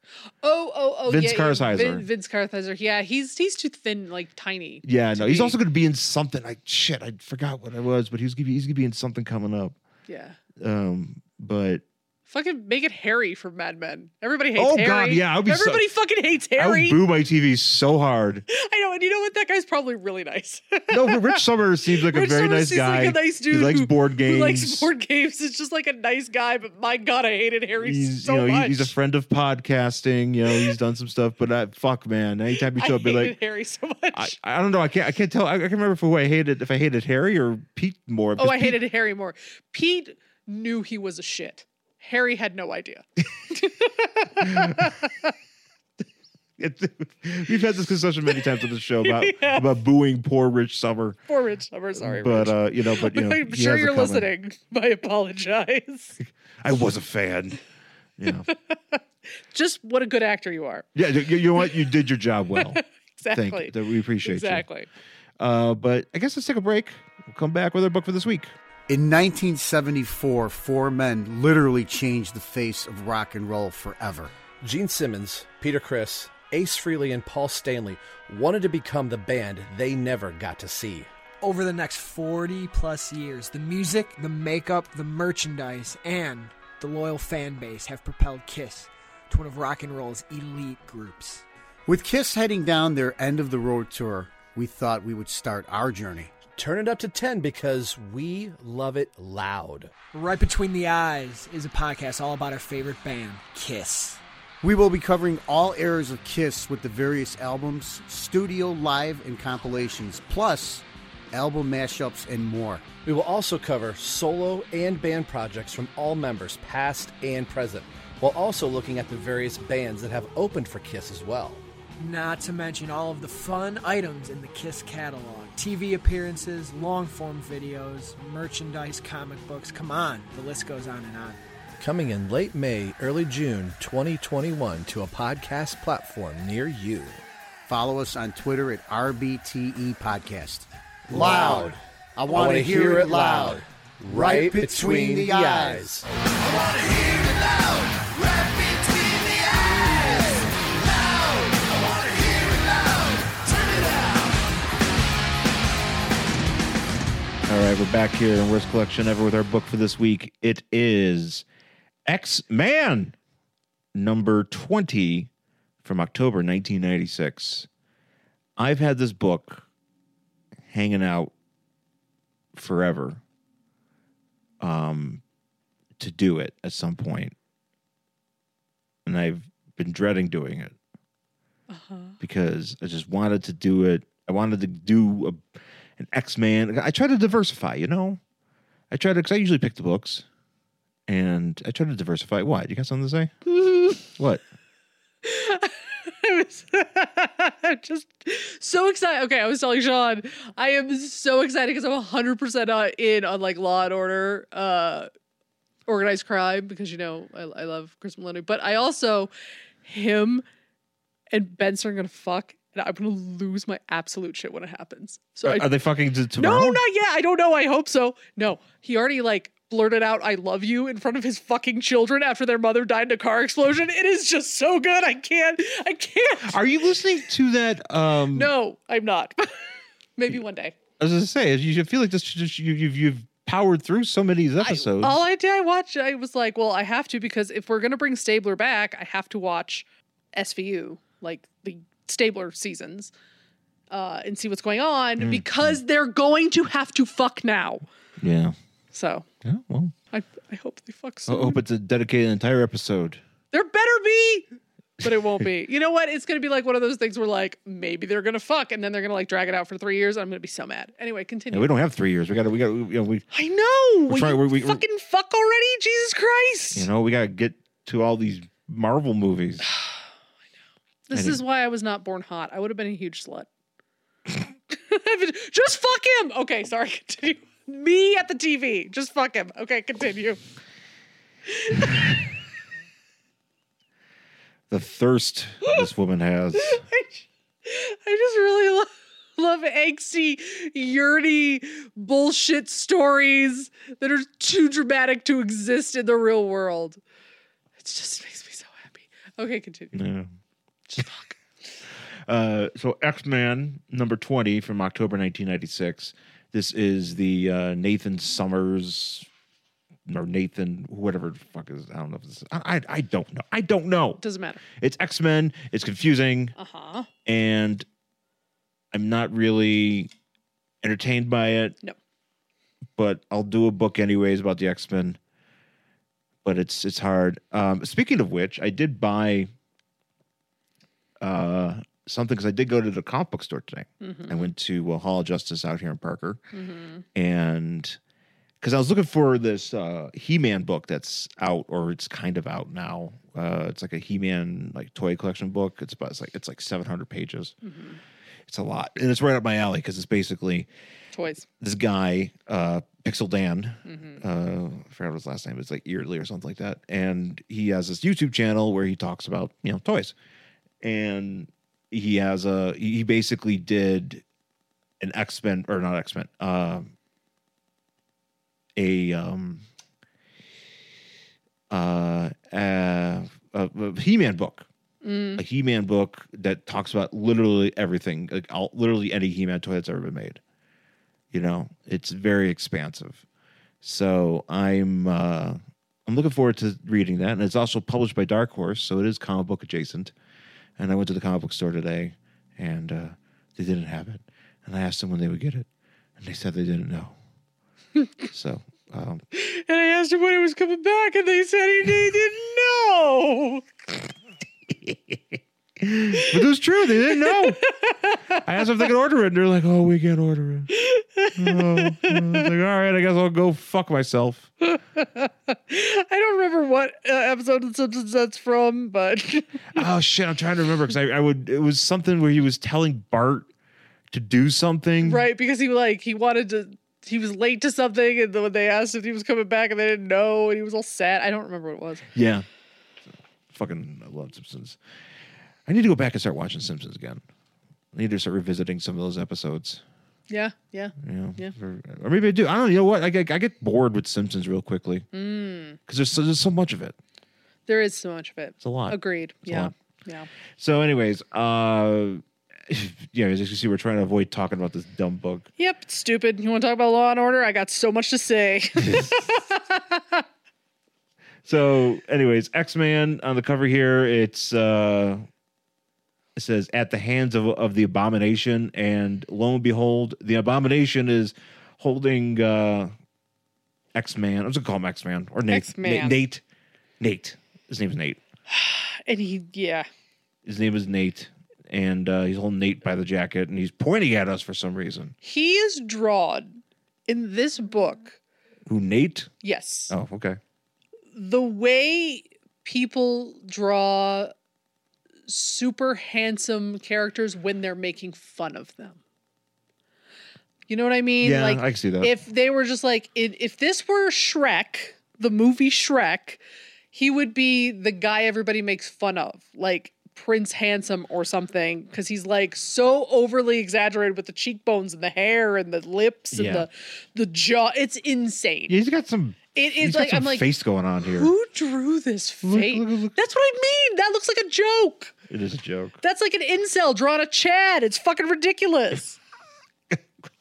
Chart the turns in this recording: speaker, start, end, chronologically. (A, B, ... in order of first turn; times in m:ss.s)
0:00.4-0:05.6 A
0:01.1-0:02.1 B
0:04.8-0:09.8 B
0:10.1-0:10.4 A
0:10.6-0:11.8 B
0:12.3-0:17.0 A
0:14.6-0:15.8 B
0:16.6-0:18.4 B
0:18.5-0:21.4 A
0:20.9-0:24.9 B
0:22.0-0:28.9 A
0:27.8-0:33.4 B
0:32.7-0:34.4 A
0:34.1-0:38.8 B
0:38.4-0:45.3 A
0:44.5-0:44.8 B
0:46.6-0:51.2 B
0:49.0-0:49.7 A
0:51.3-0:56.2 A
0:52.0-0:54.3 B
0:56.2-0:57.6 B
0:58.2-0:58.5 B
0:58.4-1:00.9 A
1:00.9-1:04.6 B
1:02.6-1:04.9 A
1:05.4-1:08.5 B
1:08.9-1:14.3 C
1:14.6-1:21.1 D
1:21.4-1:31.4 E
1:31.9-1:36.3 C
1:36.6-1:39.9 D
1:40.1-1:44.2 E
1:44.6-1:52.9 C
1:53.0-2:01.6 D
2:02.0-2:11.4 E
2:11.8-2:17.2 D
2:17.7-2:25.9 C
2:21.1-2:21.8 D
2:22.3-2:26.0 D
2:37.5-2:41.4 B
2:42.0-2:43.1 B
2:43.9-2:45.3 B
2:45.8-2:47.7 B
2:48.6-2:49.6 B
2:50.7-2:51.3 B
2:52.5-2:53.2 B
2:54.6-2:55.2 B
2:56.0-2:57.3 B
2:59.0-3:00.7 B
3:01.7-3:02.1 A
3:02.2-3:08.2 B
3:08.9-3:10.2 B
3:11.1-3:13.3 B
3:13.7-3:14.0 A
3:13.9-3:14.4 B
3:15.2-3:25.1 A
3:25.9-3:29.3 A
3:29.8-3:30.4 A
3:31.3-3:35.7 A
3:35.4-3:36.8 B
3:36.4-3:46.6 A
3:46.4-3:48.5 B
3:48.3-3:50.7 A
3:51.0-3:55.2 B
3:54.6-4:03.1 A
4:03.9-4:07.8 A
4:05.2-4:05.8 B
4:08.2-4:08.5 B
4:08.9-4:09.2 A
4:09.4-4:09.9 B
4:10.1-4:11.6 A
4:11.3-4:13.2 B
4:13.5-4:14.4 A
4:15.0-4:21.7 A
4:21.5-4:23.2 B
4:23.3-4:26.9 A
4:24.1-4:24.8 B
4:26.7-4:29.6 B
4:29.7-4:29.9 A
4:31.1-4:33.5 A
4:31.1-4:31.4 B
4:34.7-4:40.4 A
4:41.5-4:42.1 A
4:44.7-4:46.8 B
4:46.6-4:57.0 A
4:57.8-5:00.0 A
4:59.9-5:00.3 B
5:00.9-5:01.4 A
5:02.2-5:09.3 B
5:10.0-5:16.5 B
5:14.2-5:14.6 A
5:16.6-5:17.1 A
5:17.2-5:17.8 B
5:18.9-5:20.1 B
5:20.8-5:21.8 B
5:23.0-5:25.2 B
5:26.4-5:29.5 B
5:31.2-5:36.4 B
5:34.0-5:34.5 A
5:36.5-5:37.0 A
5:37.1-5:38.0 B
5:38.6-5:47.5 B
5:47.6-5:48.0 A
5:48.5-5:50.7 B
5:51.1-5:51.4 A
5:51.6-6:00.1 B
5:53.8-5:54.2 A
6:00.8-6:04.2 B
6:05.0-6:06.9 B
6:08.8-6:09.6 B
6:11.7-6:14.7 B
6:15.0-6:15.4 A
6:15.4-6:20.4 B
6:21.3-6:23.2 B
6:23.8-6:30.1 B
6:30.8-6:35.7 B
6:36.2-6:37.1 B
6:38.3-6:39.2 B
6:39.3-6:43.6 A
6:44.7-6:47.6 B
6:47.1-6:48.4 A
6:48.4-6:50.7 B
6:50.7-6:52.5 A
6:51.3-6:54.5 B
6:54.6-6:59.8 A
6:59.7-7:03.5 B
7:04.1-7:05.2 B
7:05.0-7:12.0 A
7:12.1-7:12.4 B
7:13.5-7:14.8 B
7:15.7-7:17.2 B
7:17.9-7:19.8 B
7:20.3-7:21.5 A
7:21.0-7:25.0 B
7:25.1-7:25.8 A
7:25.9-7:27.0 B
7:27.7-7:30.3 A
7:28.6-7:29.7 B
7:30.6-7:35.5 B
7:35.6-7:40.2 A
7:38.8-7:39.1 B
7:41.4-7:45.2 B
7:46.4-7:52.9 B
7:53.9-7:56.4 B
7:55.5-7:56.2 A
7:57.0-7:58.2 B
7:58.5-7:59.8 A
8:00.4-8:05.1 B
8:05.2-8:08.2 A
8:08.6-8:09.3 B
8:09.4-8:09.9 A
8:09.9-8:10.4 B
8:11.1-8:14.3 A
8:15.3-8:19.0 A
8:20.7-8:26.4 A
8:21.2-8:22.1 B
8:26.9-8:38.8 A
8:36.3-8:36.7 B
8:38.7-8:41.3 B
8:39.5-8:40.5 A
8:41.1-8:45.1 A
8:42.4-8:43.1 B
8:45.3-8:46.0 B
8:46.0-8:49.2 A